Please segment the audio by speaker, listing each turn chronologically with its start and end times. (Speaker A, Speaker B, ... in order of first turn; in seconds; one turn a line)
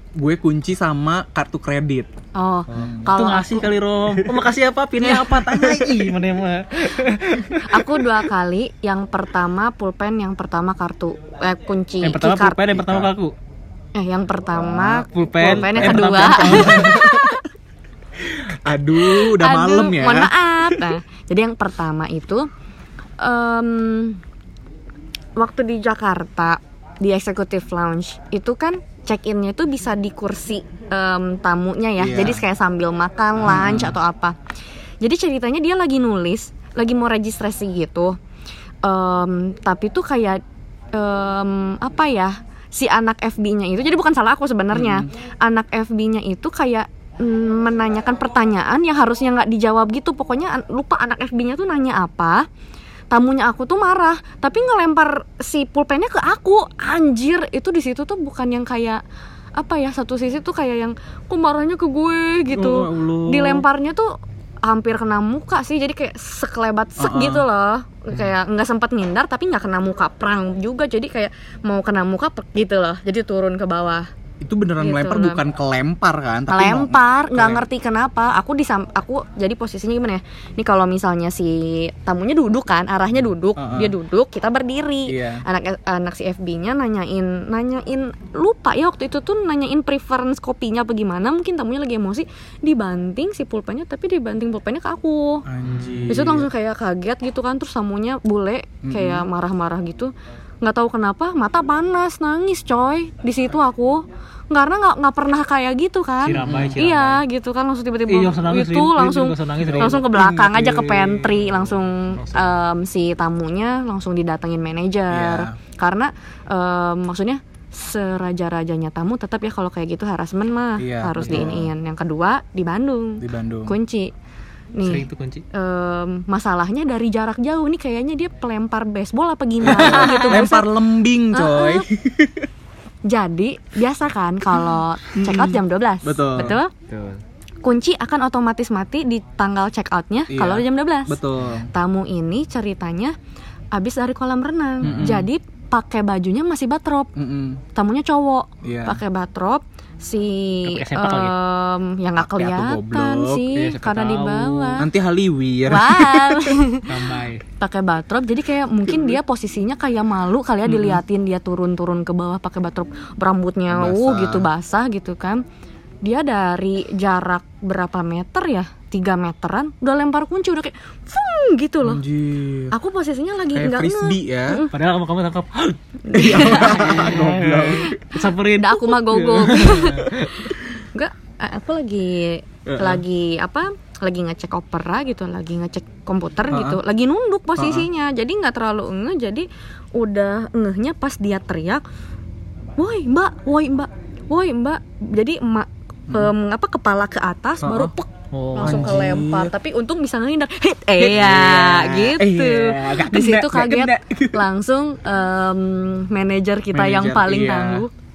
Speaker A: 0.2-2.1
Speaker B: 2.4-3.7
Speaker C: 2.7-8.0
Speaker A: 5.0-6.1
Speaker B: 7.6-12.8
Speaker C: 12.0-13.3
Speaker A: 12.7-13.1
Speaker B: 13.9-17.4
Speaker A: 14.6-17.4
Speaker C: 15.1-17.1
Speaker A: 18.2-20.9
Speaker B: 19.0-22.5
Speaker B: 23.2-24.2
Speaker B: 25.4-34.4
Speaker A: 32.0-32.4
Speaker A: 33.4-34.0
Speaker B: 35.0-38.2
Speaker B: 38.8-40.4
Speaker B: 40.9-52.5
Speaker A: 44.7-45.0
Speaker B: 53.1-59.0
Speaker B: 59.6-74.1
Speaker A: 62.6-63.6
Speaker A: 67.0-67.4
Speaker A: 74.4-77.7
Speaker B: 74.8-75.4
Speaker B: 76.5-95.4
Speaker A: 83.6-83.9
Speaker A: 85.0-85.4
Speaker A: 95.5-96.5
Speaker C: 95.7-96.1
Speaker B: 96.1-124.1
Speaker A: 98.8-99.2
Speaker C: 106.2-107.2
Speaker A: 106.4-106.8
Speaker C: 108.1-110.0
Speaker A: 109.6-111.4
Speaker C: 112.1-112.5
Speaker A: 115.1-115.5
Speaker A: 120.8-121.7
Speaker C: 121.2-121.5
Speaker A: 123.2-123.7
Speaker B: 124.7-130.7
Speaker C: 124.8-125.4
Speaker A: 129.6-132.4
Speaker C: 129.7-130.4
Speaker B: 131.3-131.8
Speaker B: 133.1-136.7
Speaker A: 135.1-136.6
Speaker C: 136.9-137.2
Speaker B: 137.6-141.2
Speaker A: 140.3-141.7
Speaker B: 141.7-143.1
Speaker B: 143.7-147.1
Speaker A: 144.8-145.3
Speaker A: 147.2-147.6
Speaker B: 147.7-154.8
Speaker A: 148.6-149.0
Speaker C: 150.7-151.3
Speaker A: 152.2-153.5
Speaker C: 153.5-154.8
Speaker A: 154.8-156.5
Speaker B: 155.7-165.4
Speaker C: 156.9-157.4
Speaker A: 158.9-159.2
Speaker C: 160.7-161.0
Speaker A: 163.7-164.5
Speaker B: 166.0-172.0
Speaker A: 171.8-172.7
Speaker B: 172.7-174.7
Speaker A: 173.5-174.7
Speaker C: 174.7-180.5
Speaker B: 176.1-176.9
Speaker A: 176.1-178.0
Speaker B: 178.6-191.8
Speaker A: 179.7-180.1
Speaker A: 182.7-183.0
Speaker A: 186.5-186.8
Speaker A: 187.6-187.9
Speaker B: 192.8-207.9
Speaker A: 197.6-197.9
Speaker C: 198.3-199.0
Speaker A: 198.6-199.5
Speaker A: 201.0-204.4
Speaker A: 206.7-207.8